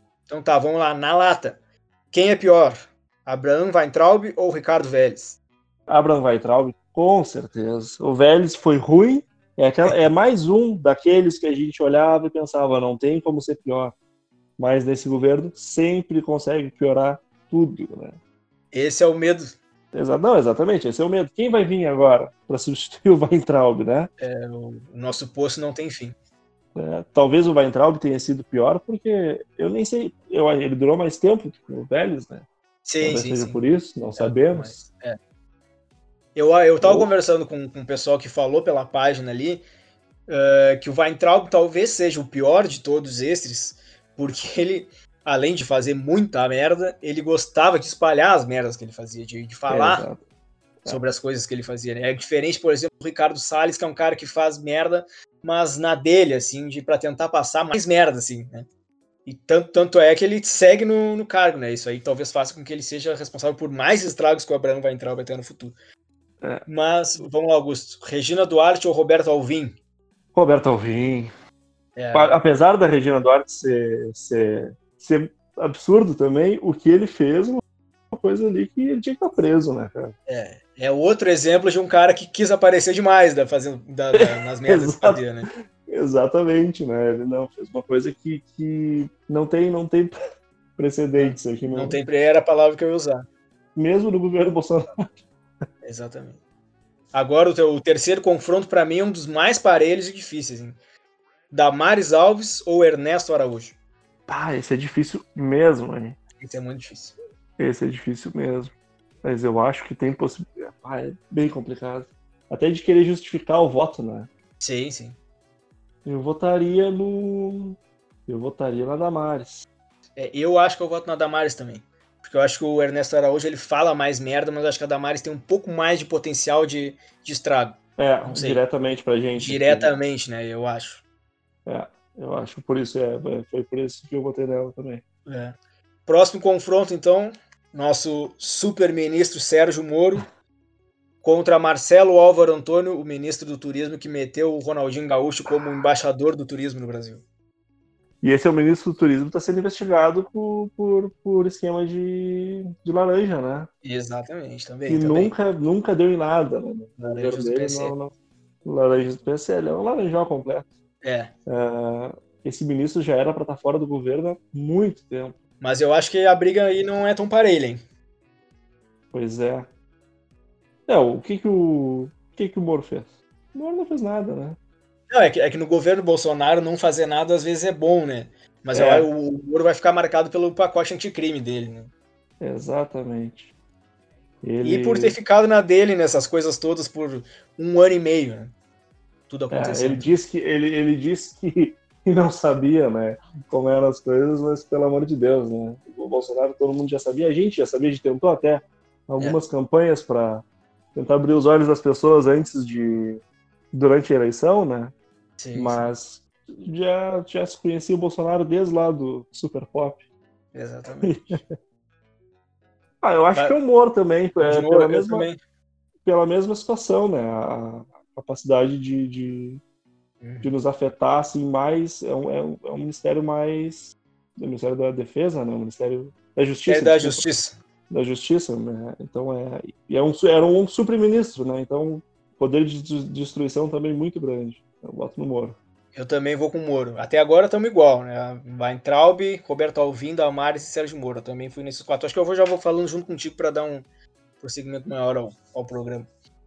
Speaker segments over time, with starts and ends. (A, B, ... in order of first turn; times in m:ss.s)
0:00.3-0:01.6 A
0:02.1-0:05.4 A
0:05.9-0:14.0 B
0:14.6-0:18.2 B
0:18.7-0:19.6 A
0:19.9-0:24.1 B
0:24.2-0:26.2 A
0:26.8-0:32.5 B
0:32.8-0:33.6 A
0:33.0-0:34.8 B
0:34.2-0:35.2 A
0:36.4-0:39.6 A
0:36.8-0:37.1 B
0:40.3-0:50.1 A
0:49.7-0:50.2 B
0:50.9-0:58.7 A
0:59.2-1:05.8 A
1:06.7-1:09.8 A
1:10.3-1:11.3 B
1:12.0-1:12.4 A
1:12.1-1:20.2 B
1:20.3-1:25.5 A
1:24.1-1:30.1 B
1:30.8-1:32.0 B
1:31.2-1:33.2 A
1:33.8-1:35.1 B
1:35.8-1:36.4 A
1:37.1-1:40.8 A
1:41.5-1:43.8 A
1:44.3-1:46.2 B
1:46.4-1:47.2 A
1:47.6-1:54.3 B
1:54.6-1:55.2 A
1:56.0-1:59.7 B
2:00.2-2:08.6 A
2:08.0-2:09.9 B
2:09.3-2:11.0 A
2:11.7-2:15.0 B
2:15.2-2:20.2 A
2:21.2-2:27.2 A
2:28.2-2:33.7 B
2:33.8-2:35.4 A
2:34.9-2:38.1 B
2:37.1-2:38.0 A
2:38.6-2:40.7 B
2:41.0-2:41.3 A
2:41.5-2:45.4 B
2:45.6-2:47.8 A
2:49.1-2:49.7 B
2:50.9-2:54.6 B
2:55.1-3:01.9 A
2:58.7-2:59.1 B
3:02.4-3:03.5 B
3:04.4-3:05.1 B
3:04.6-3:08.5 A
3:09.3-3:10.1 A
3:09.5-3:24.9 B
3:25.4-3:25.9 A
3:25.6-3:30.0 B
3:30.5-3:31.4 A
3:31.1-3:31.4 B
3:33.0-3:35.3 B
3:34.4-3:35.4 A
3:36.0-3:39.6 B
3:40.2-3:40.5 A
3:40.4-3:47.3 B
3:46.6-3:47.6 A
3:47.9-3:55.6 B
3:55.9-4:03.9 A
4:04.4-4:06.1 A